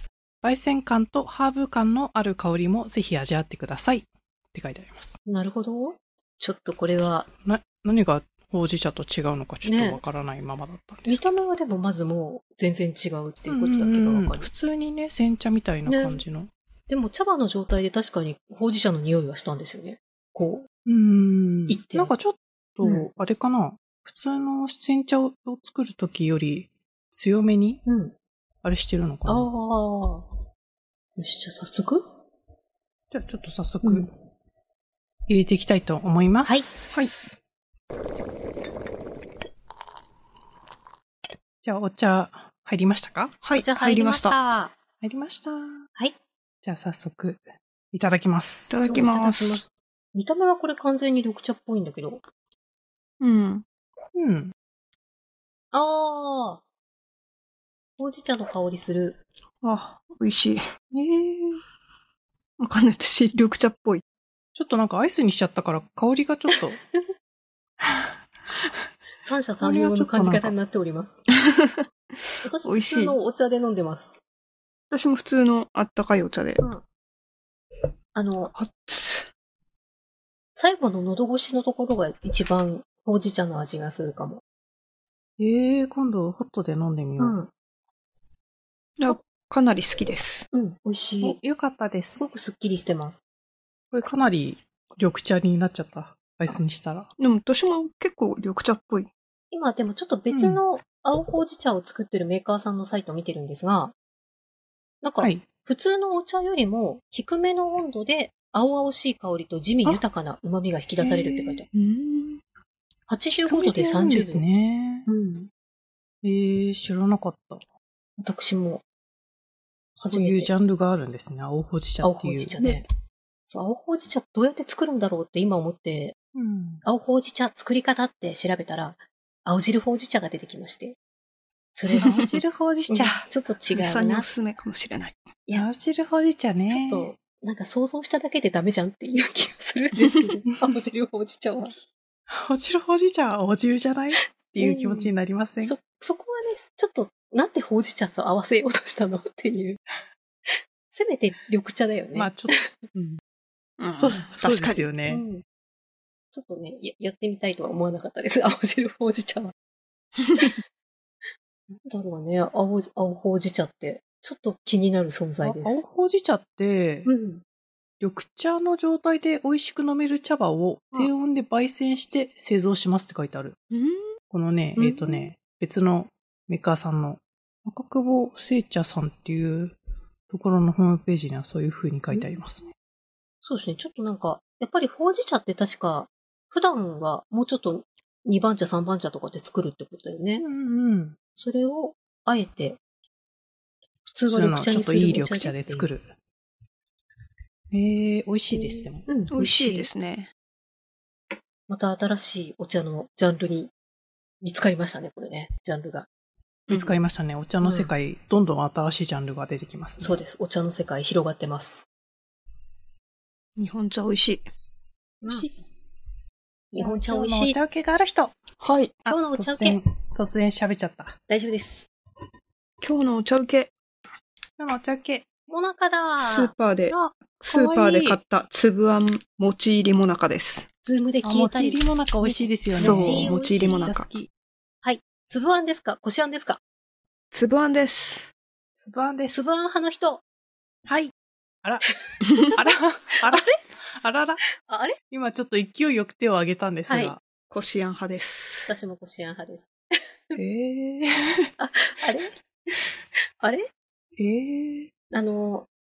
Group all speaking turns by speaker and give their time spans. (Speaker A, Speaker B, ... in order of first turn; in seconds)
Speaker A: 0.4-5.2, 7.4-11.4, 13.5-16.5, 20.8-27.8, 28.6-29.5, 33.1-34.1, 35.3-37.1, 41.6-43.4, 45.0-45.9, 46.6-48.8, 54.1-54.5, 60.9-61.5, 64.5-66.8, 67.8-68.1, 69.6-70.5, 85.4-87.4, 91.2-92.4, 93.9-97.1, 100.3-100.6, 105.2-105.4, 111.0-111.6, 113.4-115.1, 116.2-117.6, 120.1-122.6, 126.3-126.8, 132.1-133.2, 135.5-137.1, 142.3-145.8, 152.1-153.2, 153.9-155.2, 165.4-167.1, 168.0-173.6, 174.3-179.8, 180.3-182.6, 190.4-191.2, 194.3-196.1, 197.7-199.1, 206.7-210.2, 215.2-215.6, 216.7-218.4, 219.0-221.2, 224.6-225.3, 226.9-228.2, 231.2-234.3, 238.8-239.4, 240.8-241.1, 242.4-244.4, 245.1-247.2, 250.3-251.5, 254.2-254.9
Speaker B: 5.2-7.3, 9.6-10.0, 11.1-14.5, 15.9-16.2, 16.9-20.7, 21.7-22.1, 22.8-23.1, 27.9-28.1, 29.2-30.2, 31.2-32.0, 33.8-34.1, 43.5-44.7, 48.8-52.2, 55.7-56.6, 58.0-59.2, 69.2-71.2, 72.4-74.2, 78.1-78.5, 80.5-84.4, 87.2-87.5, 90.5-91.4, 92.2-93.2, 99.5-103.9, 105.0-111.7, 113.1-114.4, 115.1-115.5, 118.2-118.8, 120.0-120.5, 122.0-122.8, 123.5-126.2, 126.8-131.0, 131.7-132.2, 132.9-134.2, 136.7-141.7, 144.6-149.8, 150.5-152.7, 155.1-155.4, 156.3-159.5, 161.8-165.8, 167.1-167.4, 174.8-175.3, 183.4-190.4, 191.4-192.8, 194.1-195.9, 198.5-199.9, 201.7-203.7, 204.4-206.1, 207.6-207.9, 210.0-211.8, 215.2-215.5, 216.7-217.6, 219.1-219.8, 221.3-221.9, 225.5-226.5, 230.8-233.9, 234.8-236.6, 239.3-240.2, 242.3-242.6, 243.2-243.6, 244.6-245.0, 246.9-247.1, 248.7-249.7, 251.6-252.3, 253.4-253.7, 255.1-255.7
Speaker C: 43.4-44.4, 48.7-49.6, 53.2-53.6, 59.6-60.6, 62.6-64.0, 71.5-71.8, 72.6-73.1, 74.9-76.6, 78.5-79.3, 89.0-90.5, 97.2-99.1, 111.7-112.4, 132.0-132.3, 133.7-135.2, 153.8-154.9, 173.7-174.2, 199.3-200.3, 213.6-214.4, 218.6-219.0, 222.8-223.7, 226.2-230.7, 232.8-234.1, 237.3-238.3, 247.5-248.7